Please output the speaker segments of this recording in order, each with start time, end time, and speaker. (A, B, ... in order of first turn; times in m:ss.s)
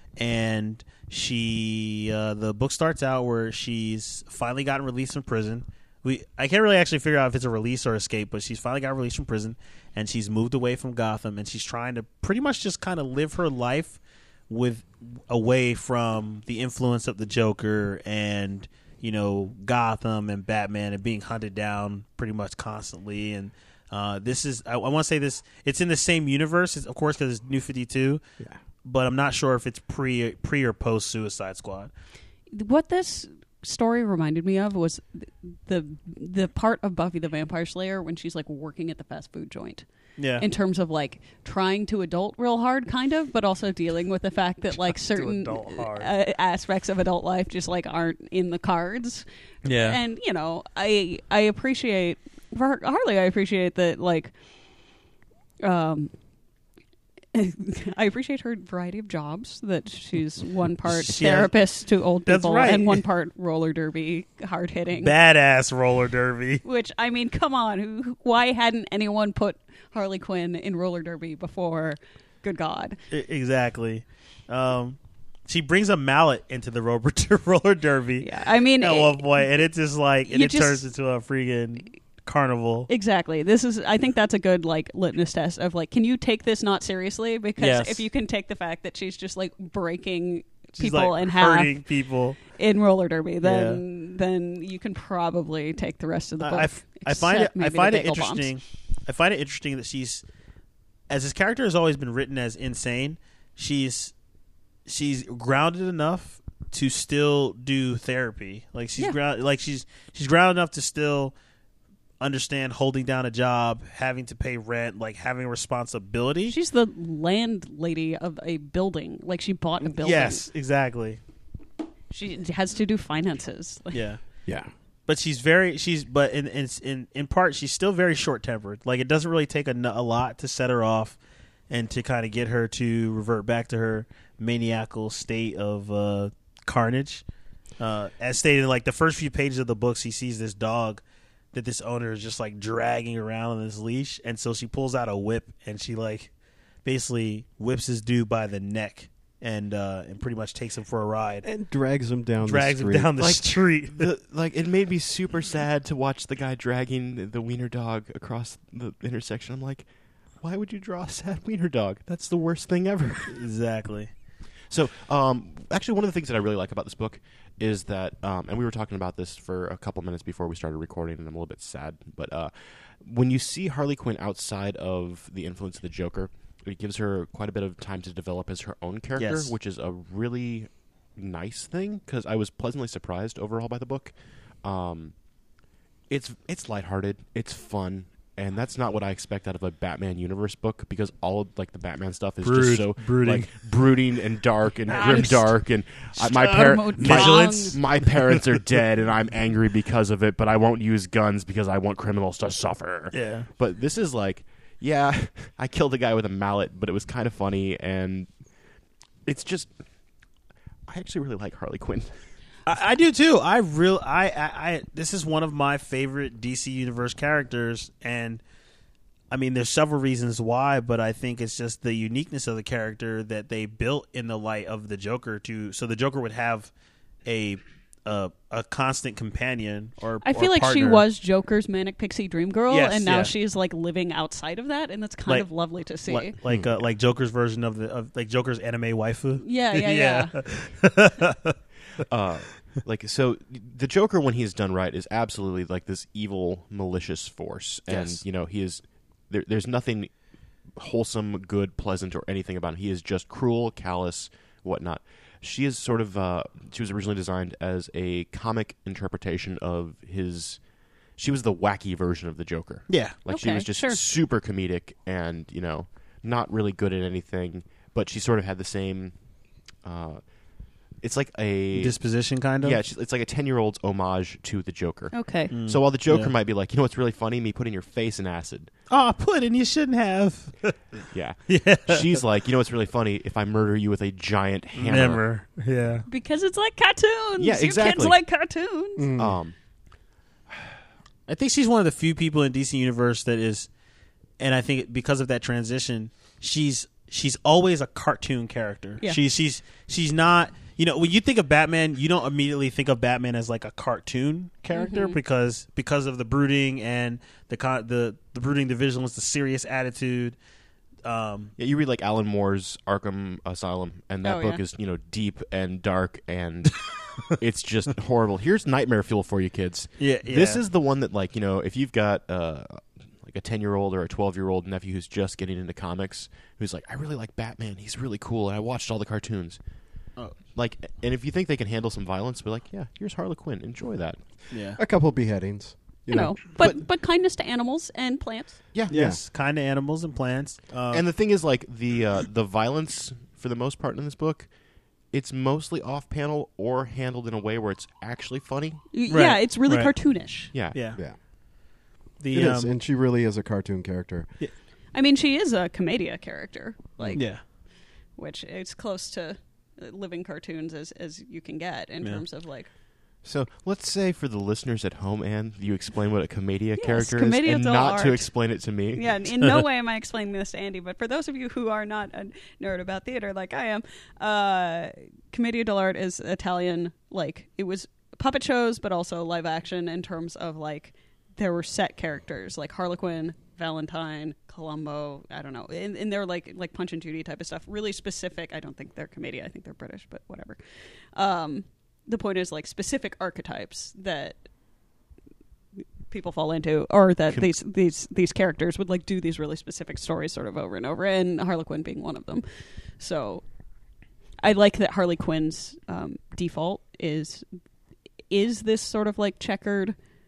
0:00.2-0:28.2 A
0:28.8-0:31.9 A
0:32.5-0:39.8 B
0:40.2-0:40.5 A
0:40.4-0:54.3 B
0:44.9-0:46.1 A
0:49.6-0:50.0 A
0:55.6-0:56.1 B
0:57.3-1:05.1 B
1:00.9-1:01.6 A
1:02.2-1:03.0 A
1:05.0-1:06.6 A
1:06.6-1:13.0 B
1:13.1-1:15.0 A
1:15.5-1:22.9 A
1:18.2-1:19.5 B
1:20.3-1:20.8 B
1:22.9-1:31.8 B
1:27.6-1:28.0 A
1:30.8-1:32.4 A
1:32.5-1:38.5 B
1:33.4-1:33.8 A
1:36.4-1:40.2 A
1:41.1-1:44.1 A
1:44.9-1:51.3 A
1:52.2-1:56.6 A
1:56.5-2:00.5 B
1:59.8-2:01.2 A
2:02.1-2:04.0 B
2:03.9-2:04.2 A
2:05.1-2:11.2 A
2:11.7-2:17.2 A
2:17.8-2:21.0 A
2:21.5-2:26.3 A
2:26.8-2:31.5 A
2:31.4-2:33.2 C
2:32.4-2:34.1 A
2:33.2-2:39.9 D
2:40.4-2:43.4 D
2:43.3-2:44.1 A
2:44.7-3:05.1 D
2:59.2-2:59.5 A
3:06.1-3:28.3 D
3:12.4-3:13.6 A
3:14.9-3:15.5 A
3:14.9-3:15.5 B
3:16.2-3:18.6 A
3:16.4-3:17.8 B
3:23.1-3:23.5 A
3:29.3-3:29.7 D
3:30.9-3:32.1 D
3:32.7-3:38.4 A
3:39.3-3:46.7 A
3:47.2-3:51.0 A
3:50.2-3:56.4 B
3:52.7-3:53.3 A
3:56.0-4:01.6 A
3:59.4-4:00.4 B
4:02.1-4:10.1 D
4:07.9-4:08.2 A
4:10.8-4:20.6 D
4:21.2-4:29.2 D
4:22.9-4:23.2 A
4:23.3-4:24.0 B
4:29.8-4:30.2 D
4:31.0-4:32.0 D
4:31.7-4:32.8 A
4:32.6-4:38.7 D
4:35.1-4:35.5 B
4:35.5-4:36.3 A
4:38.9-4:40.8 A
4:41.1-4:45.2 D
4:41.5-4:42.2 A
4:44.8-4:46.0 A
4:46.1-4:49.1 B
4:47.4-4:48.2 D
4:49.0-4:49.4 C
4:49.2-4:49.6 D
4:51.3-4:53.7 A
4:54.4-5:10.4 A
5:04.7-5:05.2 B
5:11.0-5:11.5 A
5:11.6-5:29.6 D
5:14.2-5:14.6 B
5:20.0-5:20.6 A
5:30.6-5:34.2 D
5:34.5-5:34.8 A
5:34.8-5:36.8 C
5:36.1-5:38.6 B
5:38.9-5:39.2 C
5:38.9-5:41.0 A
5:40.9-5:44.5 D
5:45.1-5:48.8 D
5:48.9-5:50.5 B
5:49.1-5:49.9 A
5:50.5-5:50.8 D
5:50.7-5:51.0 A
5:52.2-5:52.7 A
5:52.3-5:54.3 C
5:54.9-5:57.4 B
5:57.0-5:57.2 C
5:57.2-5:57.4 A
5:58.2-6:02.7 B
6:03.2-6:09.1 D
6:06.8-6:08.3 B
6:08.9-6:30.6 B
6:31.2-6:34.4 B
6:36.1-6:42.4 B
6:43.0-6:43.4 B
6:44.4-6:47.4 B
6:48.3-6:50.0 B